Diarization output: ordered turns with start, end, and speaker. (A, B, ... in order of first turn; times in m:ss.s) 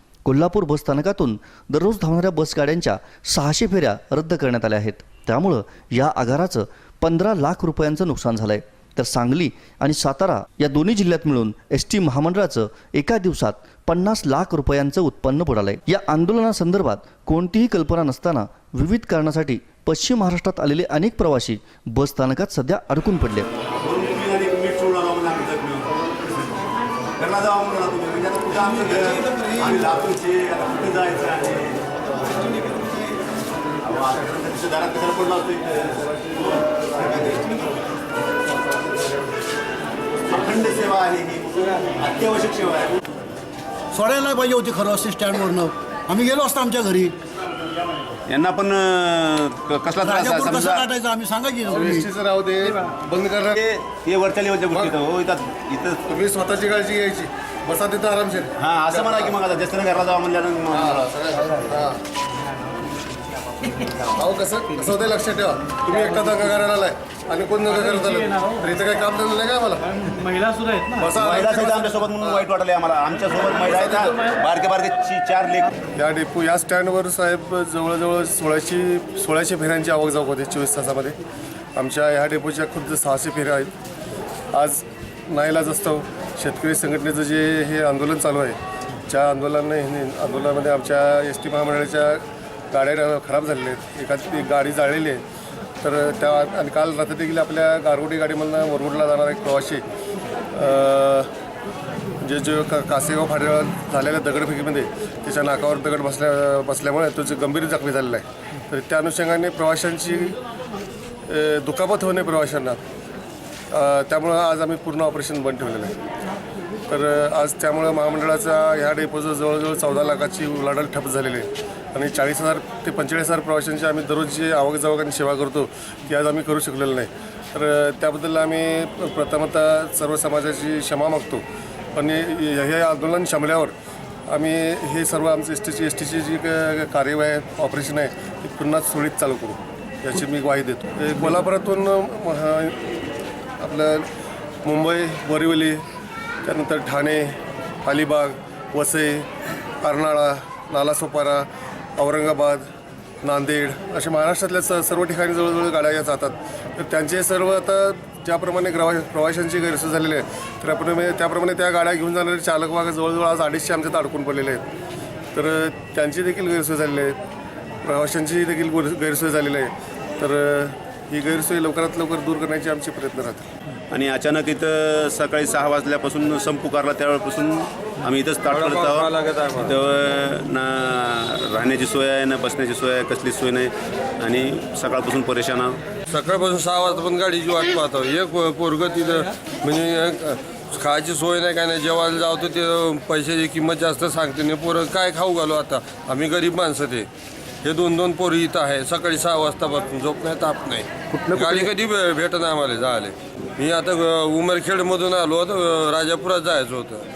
0:00.2-0:23.5 A
0:23.8-0:26.2 B
0:27.2-0:33.0 B
0:33.8-0:37.7 B
0:40.3-0:43.0 B
0:43.9-0:47.1 C
0:48.2-0:50.9 B
0:50.0-0:51.9 C
0:51.6-0:53.6 D
0:53.5-0:56.0 B
0:56.1-0:59.2 D
0:58.6-1:01.3 B
1:00.8-1:02.0 D
1:04.1-1:12.2 D
1:11.2-1:15.7 B
1:15.9-1:21.2 D
1:21.8-1:23.7 D
1:24.5-1:35.2 D
1:35.8-1:39.8 D
1:40.5-1:41.3 D
1:42.2-1:50.4 D
1:51.2-1:52.8 D
1:53.7-1:55.9 D
1:56.9-2:11.4 D
2:11.9-2:13.7 D
2:14.3-2:23.0 D
2:23.6-2:24.1 D
2:24.6-2:25.8 D
2:26.4-2:29.3 D
2:29.8-2:31.4 D
2:32.0-2:32.6 D
2:33.2-2:44.6 D
2:45.3-2:47.2 D
2:47.8-2:53.4 D
2:53.9-3:05.8 B
2:58.5-2:59.7 E
3:06.1-3:17.1 E
3:17.6-3:27.0 E
3:21.1-3:21.7 D